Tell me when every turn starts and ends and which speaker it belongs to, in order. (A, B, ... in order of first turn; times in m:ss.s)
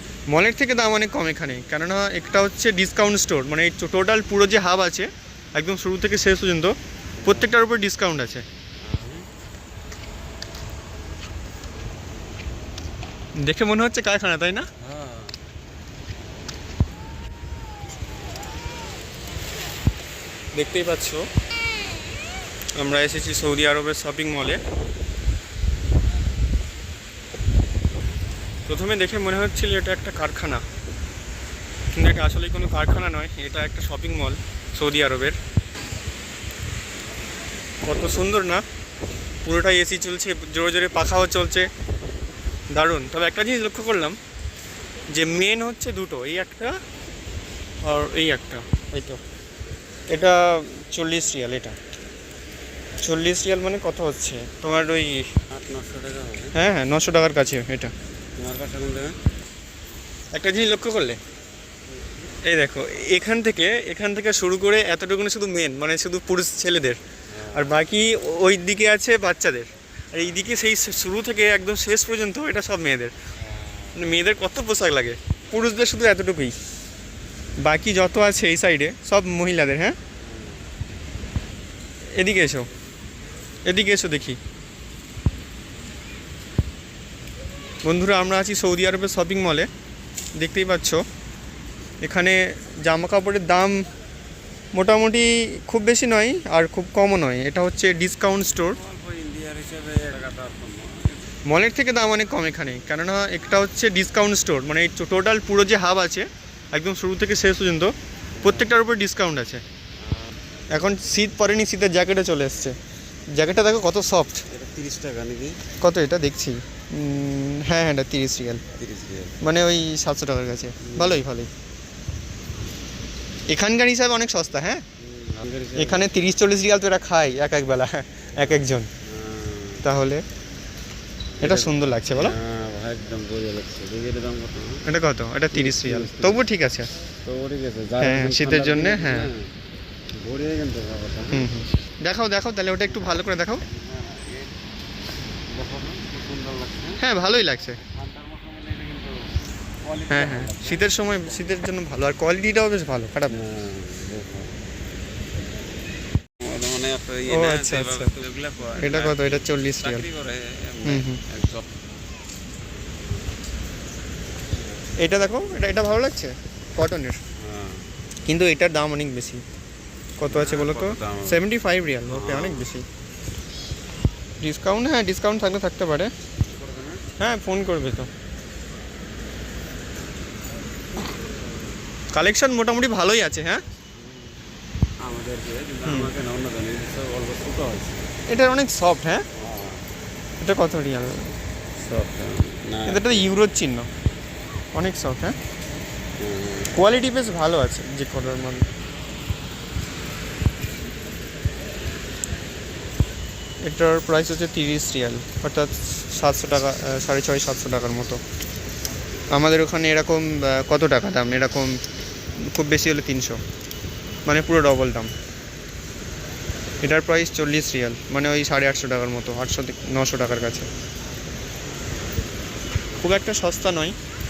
0:00.3-0:08.4 A
0:07.2-0:07.5 B
0:08.8-0:09.3 B
0:13.4-0:14.7 A
0:14.8-0:15.4 B
0:20.5-0:21.3 A
0:22.8-0:24.6 A
0:28.7-0:30.6 A
0:31.9-0:35.4 A
0:37.8-0:38.6 A
0:39.4-0:41.7 A
0:42.7-0:44.2 A
0:45.1-0:46.8 A
0:47.8-0:49.2 A
0:50.1-0:51.8 A
0:53.0-0:55.3 A
0:55.5-0:56.5 B
0:56.6-0:57.9 A
0:58.4-0:59.2 B
1:00.3-1:01.2 A
1:01.9-1:02.3 B
1:02.4-1:07.0 A
1:07.3-1:07.8 B
1:07.6-1:13.1 A
1:13.4-1:14.2 B
1:14.0-1:16.6 A
1:17.6-1:20.0 A
1:20.2-1:20.7 B
1:22.2-1:22.7 A
1:23.7-1:24.4 A
1:27.8-1:29.7 A
1:30.4-1:31.0 A
1:32.0-1:33.8 A
1:34.7-1:38.8 A
1:38.6-1:41.2 B
1:41.5-1:49.6 A
1:48.4-1:48.7 B
1:50.0-1:50.3 B
1:50.7-1:52.8 A
1:53.3-1:54.4 A
1:54.5-1:55.6 B
1:55.8-1:58.6 A
1:58.8-1:59.4 B
1:59.4-2:01.5 A
2:00.8-2:01.2 B
2:03.5-2:04.8 A
2:05.0-2:06.2 B
2:05.8-2:08.9 A
2:08.4-2:09.8 B
2:09.8-2:10.2 A
2:11.4-2:14.8 B
2:11.4-2:12.4 A
2:14.8-2:16.9 A
2:15.5-2:16.4 B
2:17.2-2:19.5 B
2:18.0-2:19.3 A
2:20.2-2:21.5 B
2:21.3-2:23.6 A
2:22.8-2:24.5 B
2:25.5-2:27.0 B
2:27.0-2:27.8 A
2:27.8-2:31.6 B
2:30.1-2:33.4 A
2:33.3-2:34.6 B
2:36.4-2:41.6 B
2:37.3-2:38.1 A
2:38.8-2:40.1 A
2:40.8-2:41.2 A
2:45.0-2:47.2 A
2:47.4-2:47.9 B
2:48.3-2:49.4 A
2:50.2-2:52.8 A
2:50.3-2:51.4 B
2:52.1-2:52.7 B
2:54.4-2:56.1 A
2:56.4-2:57.0 B
2:57.2-2:58.1 A
3:02.1-3:03.6 A
3:04.0-3:04.4 B
3:05.0-3:08.1 B
3:08.3-3:09.2 A
3:09.4-3:09.8 B
3:10.4-3:11.3 A
3:11.8-3:13.3 B
3:12.9-3:13.9 A
3:14.7-3:15.4 A
3:16.2-3:16.8 B
3:16.7-3:18.7 A
3:23.6-3:28.2 A
3:29.3-3:31.8 A
3:32.4-3:33.4 A
3:34.3-3:35.1 A
3:36.8-3:40.7 A
3:43.0-3:44.0 A